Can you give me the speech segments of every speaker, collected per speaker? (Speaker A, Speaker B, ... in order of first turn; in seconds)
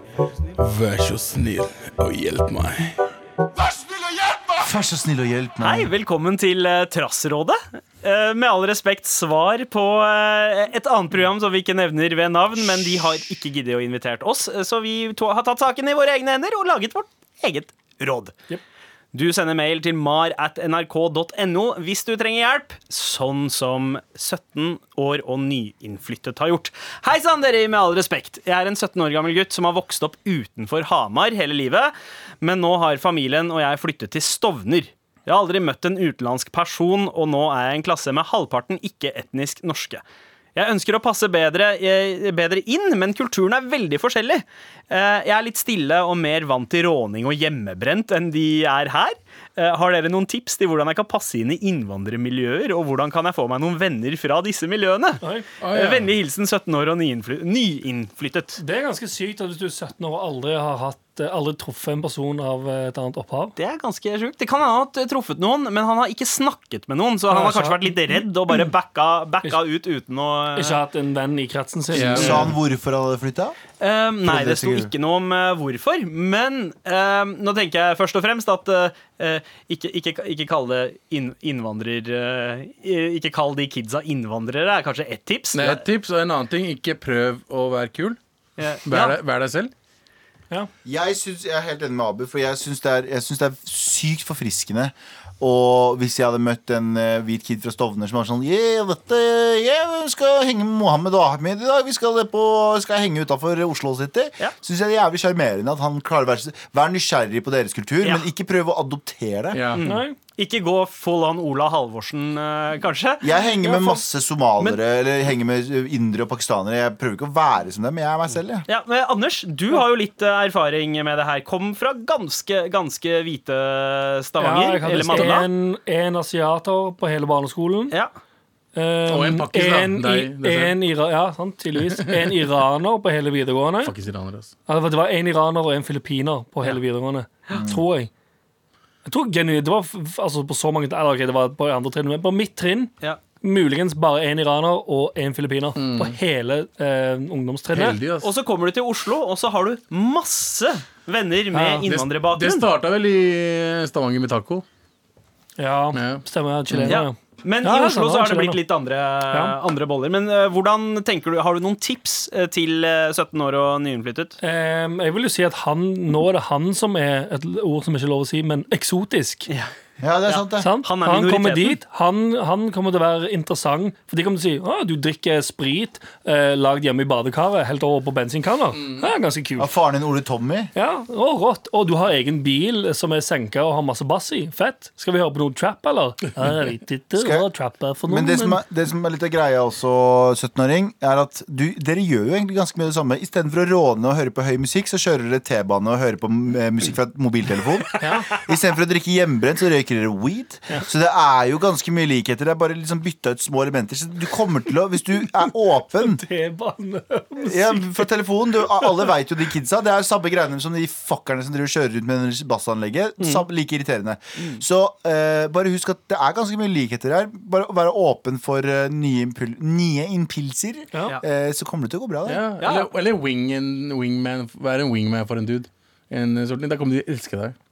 Speaker A: 0.6-3.0, 55.6-56.1, 71.9-72.5, 85.5-88.2, 88.8-89.7, 109.5-109.8, 129.1-130.8, 131.8-132.4, 133.8-134.5, 145.8-146.2, 147.7-148.3, 151.9-154.6, 155.9-157.0, 222.3-227.6
Speaker B: 3.8-5.9, 72.1-73.6, 74.2-74.9, 90.8-109.6, 113.2-118.7, 137.5-137.8, 170.0-170.7, 179.6-180.7, 187.2-187.5, 188.1-206.2, 207.4-222.4
Speaker C: 5.6-18.4, 19.1-40.0, 40.5-58.6, 63.6-70.8, 72.2-72.5, 73.8-85.8, 88.6-89.2, 109.7-113.3, 118.7-125.5, 148.2-152.7, 156.9-164.4, 170.3-171.8, 222.6-222.9
Speaker D: 55.2-55.5, 58.6-63.6, 67.3-68.2, 70.5-72.4, 109.8-110.2, 113.6-114.0, 124.4-128.0, 128.8-133.9, 134.7-138.1, 139.1-148.0, 151.5-151.9, 155.6-158.6, 159.3-159.6, 164.4-169.5, 170.6-179.8, 180.8-188.6, 198.0-198.3, 205.9-208.1, 220.9-221.2